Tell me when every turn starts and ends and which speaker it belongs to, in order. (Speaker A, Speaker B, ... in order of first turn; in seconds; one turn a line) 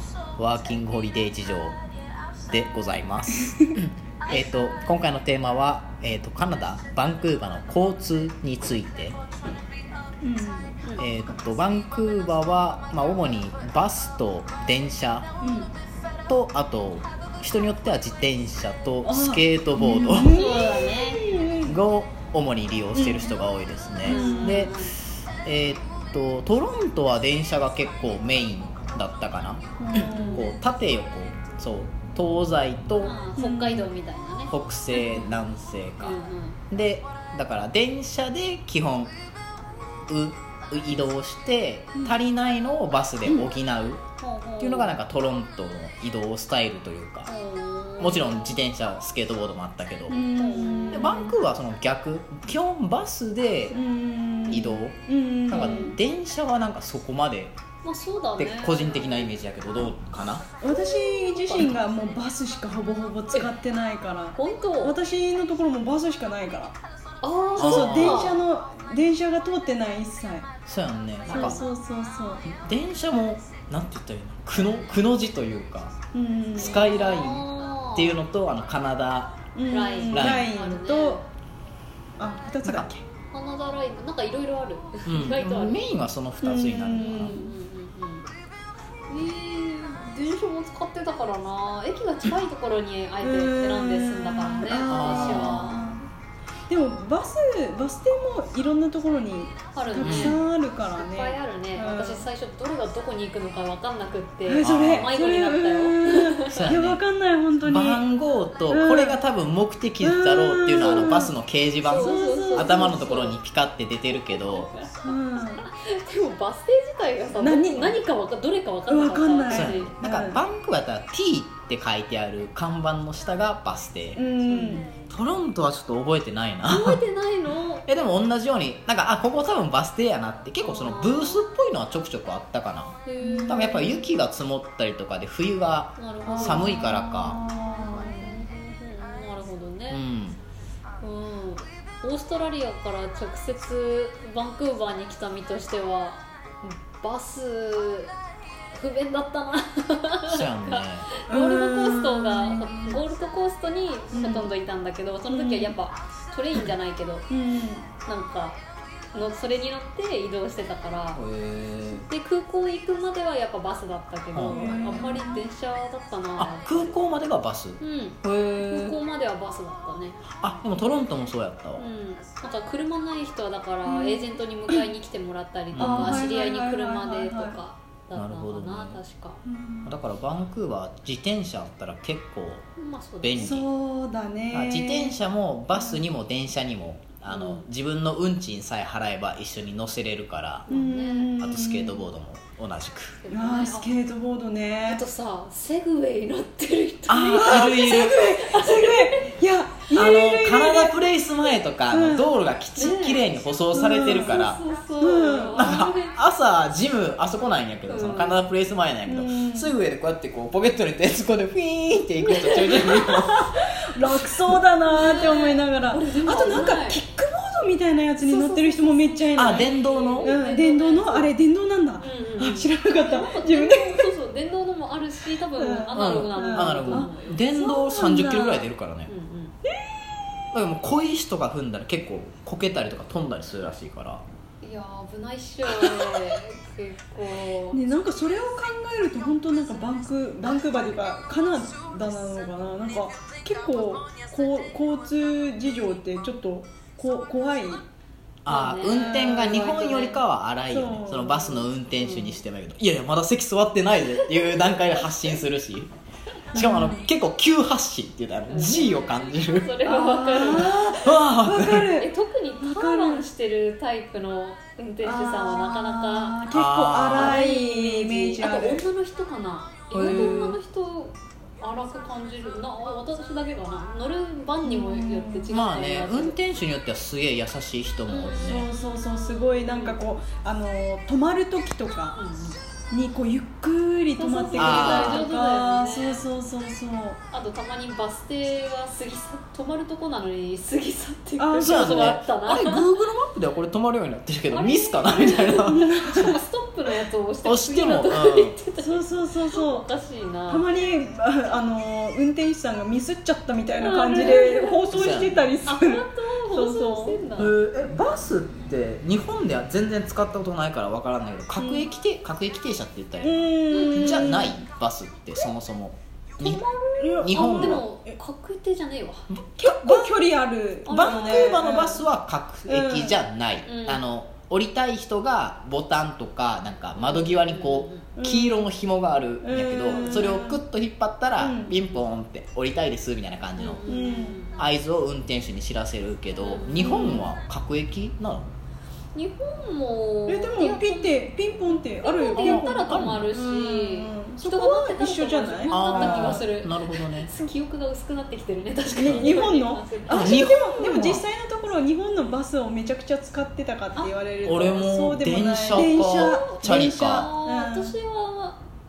Speaker A: 0.4-1.8
Speaker A: 2.5-9.2
Speaker B: 10.2-10.8
Speaker A: 11.0-15.3
Speaker B: 15.4-15.7
Speaker A: 16.3-20.4
Speaker B: 19.0-21.8
Speaker C: 20.3-21.4
Speaker A: 21.6-33.2
Speaker B: 23.0-23.3
Speaker C: 24.0-25.0
Speaker B: 24.1-24.7
Speaker B: 29.8-30.5
Speaker C: 30.0-30.4
Speaker C: 33.0-35.4
Speaker B: 33.4-33.9
Speaker A: 34.5-39.1
Speaker C: 36.0-36.6
Speaker A: 40.1-44.0
Speaker C: 44.2-45.0
Speaker A: 44.6-47.3
Speaker C: 47.3-48.6
Speaker A: 48.0-50.3
Speaker B: 50.1-51.3
Speaker C: 50.3-51.4
Speaker A: 50.9-53.8
Speaker B: 53.7-55.9
Speaker A: 54.5-57.6
Speaker C: 55.5-56.0
Speaker C: 57.8-59.4
Speaker A: 58.4-60.5
Speaker B: 60.6-66.8
Speaker C: 60.7-61.8
Speaker C: 64.3-65.0
Speaker C: 67.2-68.4
Speaker A: 67.6-68.4
Speaker B: 67.6-70.5
Speaker A: 70.7-71.6
Speaker C: 71.3-71.7
Speaker B: 71.3-72.5
Speaker A: 72.5-75.9
Speaker B: 76.1-76.9
Speaker A: 76.6-79.4
Speaker C: 76.6-78.2
Speaker B: 79.5-81.2
Speaker C: 79.7-81.3
Speaker A: 80.1-80.5
Speaker B: 82.2-83.0
Speaker A: 82.6-82.9
Speaker C: 83.3-85.9
Speaker A: 85.1-87.4
Speaker B: 86.4-87.5
Speaker C: 87.0-88.3
Speaker C: 89.1-96.0
Speaker B: 93.2-96.0
Speaker A: 94.9-95.7
Speaker B: 96.7-102.2
Speaker C: 99.7-106.7
Speaker A: 100.0-100.4
Speaker B: 104.5-108.0
Speaker A: 104.6-105.1
Speaker A: 106.5-107.0
Speaker A: 107.6-114.7
Speaker B: 108.7-109.2
Speaker B: 110.0-111.3
Speaker C: 111.8-113.4
Speaker B: 112.0-113.0
Speaker C: 114.3-119.9
Speaker B: 115.0-115.6
Speaker B: 117.4-118.0
Speaker B: 118.9-120.4
Speaker A: 119.5-124.2
Speaker B: 124.2-124.9
Speaker C: 124.5-125.1
Speaker A: 125.1-127.0
Speaker C: 126.7-127.8
Speaker A: 127.9-137.4
Speaker C: 130.6-131.4
Speaker C: 133.1-133.9
Speaker B: 133.2-134.0
Speaker C: 136.0-140.0
Speaker B: 136.3-138.4
Speaker A: 139.9-140.4
Speaker C: 141.0-148.1
Speaker C: 148.7-157.3
Speaker A: 150.3-151.1
Speaker B: 151.3-153.0
Speaker B: 154.1-154.5
Speaker B: 155.3-155.8
Speaker B: 157.3-157.9
Speaker C: 158.1-158.6
Speaker C: 159.1-161.2
Speaker A: 161.2-162.1
Speaker C: 161.9-167.1
Speaker A: 164.3-165.1
Speaker B: 164.5-165.4
Speaker A: 166.4-169.0
Speaker C: 167.8-170.2
Speaker A: 170.4-171.8
Speaker C: 171.8-179.4
Speaker B: 173.9-174.3
Speaker A: 175.7-176.3
Speaker B: 175.8-177.6
Speaker A: 178.2-179.0
Speaker B: 179.4-179.9
Speaker A: 179.8-182.7
Speaker C: 182.8-183.7
Speaker A: 183.2-183.7
Speaker B: 183.4-185.2
Speaker A: 184.5-190.7
Speaker C: 187.3-187.6
Speaker C: 190.7-191.3
Speaker B: 190.7-192.0
Speaker A: 191.4-193.2
Speaker C: 193.2-193.9
Speaker B: 193.3-195.0
Speaker C: 194.9-199.4
Speaker A: 197.1-198.3
Speaker B: 197.2-201.0
Speaker A: 199.9-204.6
Speaker B: 201.9-202.3
Speaker C: 202.8-203.2
Speaker B: 203.7-204.5
Speaker C: 204.2-206.2
Speaker B: 205.0-205.7
Speaker A: 205.6-213.5
Speaker C: 207.9-208.4
Speaker B: 209.1-209.8
Speaker C: 212.2-213.7
Speaker B: 213.9-219.7
Speaker C: 214.9-217.0
Speaker C: 218.2-221.3
Speaker A: 219.3-220.3
Speaker B: 220.2-224.1
Speaker C: 222.0-227.4
Speaker B: 225.6-228.7
Speaker A: 225.9-229.1
Speaker C: 229.1-229.6
Speaker A: 230.5-234.2
Speaker C: 234.6-237.8
Speaker B: 237.7-247.9
Speaker A: 248.4-255.9
Speaker C: 248.5-250.2
Speaker B: 250.7-251.7
Speaker C: 252.0-252.4
Speaker C: 254.2-255.1
Speaker B: 256.5-257.1
Speaker A: 256.5-259.8
Speaker C: 258.5-261.1
Speaker B: 259.9-263.3
Speaker A: 260.6-261.9
Speaker C: 261.9-266.4
Speaker B: 265.0-268.9
Speaker A: 266.5-267.4
Speaker C: 267.1-276.4
Speaker A: 269.9-270.6
Speaker B: 270.0-270.4
Speaker B: 274.6-275.5
Speaker A: 275.5-278.7
Speaker C: 278.1-280.0
Speaker B: 278.3-282.2
Speaker C: 282.1-282.6
Speaker B: 282.9-287.2
Speaker C: 284.2-286.3
Speaker A: 284.6-285.3
Speaker C: 287.3-292.9
Speaker B: 291.4-292.2
Speaker A: 291.6-295.8
Speaker C: 294.5-300.7
Speaker B: 295.7-296.4
Speaker A: 297.4-298.6
Speaker B: 298.8-299.9
Speaker B: 300.5-307.2
Speaker C: 303.8-304.9
Speaker A: 304.9-305.5
Speaker C: 305.6-307.5
Speaker A: 307.4-316.6
Speaker B: 311.6-311.9
Speaker B: 313.2-314.6
Speaker C: 313.7-314.4
Speaker C: 316.4-319.3
Speaker B: 317.0-318.1
Speaker A: 317.2-317.9
Speaker A: 319.3-320.1
Speaker B: 319.6-322.0
Speaker C: 320.9-321.8
Speaker A: 320.9-333.9
Speaker B: 322.7-323.2
Speaker C: 323.6-324.0
Speaker C: 327.0-328.1
Speaker B: 328.2-328.7
Speaker B: 329.4-330.6
Speaker C: 329.9-330.4
Speaker B: 331.4-331.8
Speaker C: 333.6-334.7
Speaker B: 333.9-334.4
Speaker A: 334.6-338.5
Speaker C: 336.4-337.3
Speaker B: 336.8-337.3
Speaker C: 339.1-351.1
Speaker B: 340.3-346.5
Speaker A: 342.4-343.3
Speaker A: 345.7-347.3
Speaker B: 348.9-357.9
Speaker A: 349.0-349.4
Speaker A: 350.1-351.2
Speaker A: 354.4-357.3
Speaker C: 355.8-358.7